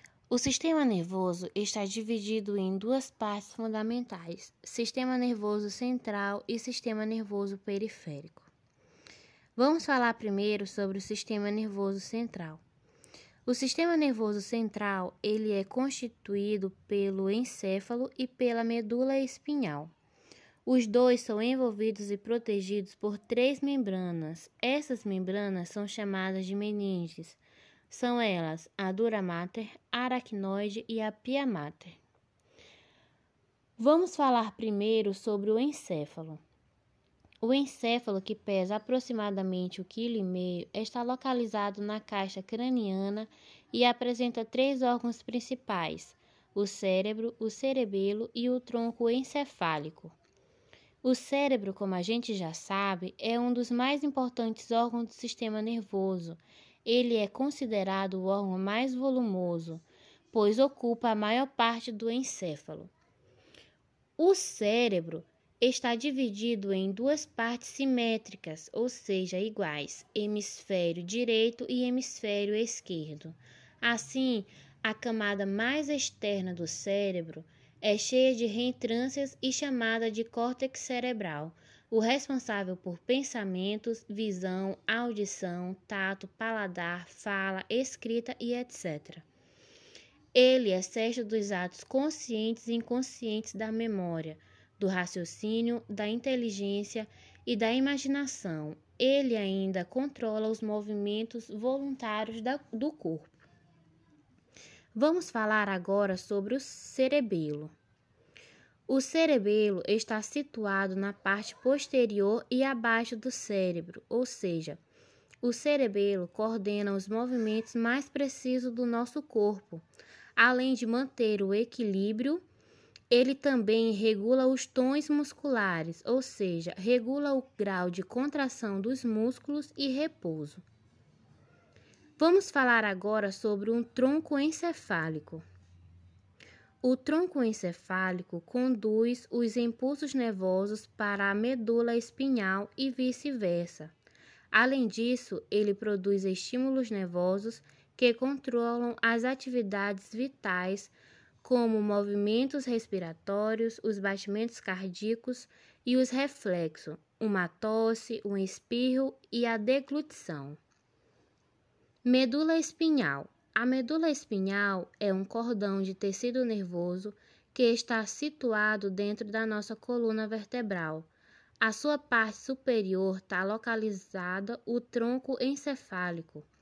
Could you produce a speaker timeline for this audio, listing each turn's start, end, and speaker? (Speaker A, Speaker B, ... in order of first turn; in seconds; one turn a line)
Speaker A: 0.3-8.5
Speaker A: 9.6-12.6
Speaker A: 13.4-19.9
Speaker A: 20.6-32.0
Speaker A: 33.8-36.4
Speaker A: 37.4-50.1
Speaker A: 51.0-62.9
Speaker A: 64.2-89.2
Speaker A: 90.3-103.4
Speaker A: 104.9-107.7
Speaker A: 108.9-114.8
Speaker A: 115.4-119.8
Speaker A: 120.3-122.4
Speaker A: 123.1-130.6
Speaker A: 132.2-135.4
Speaker A: 136.8-143.9
Speaker A: 144.5-160.6
Speaker A: 162.0-171.1
Speaker A: 171.6-176.5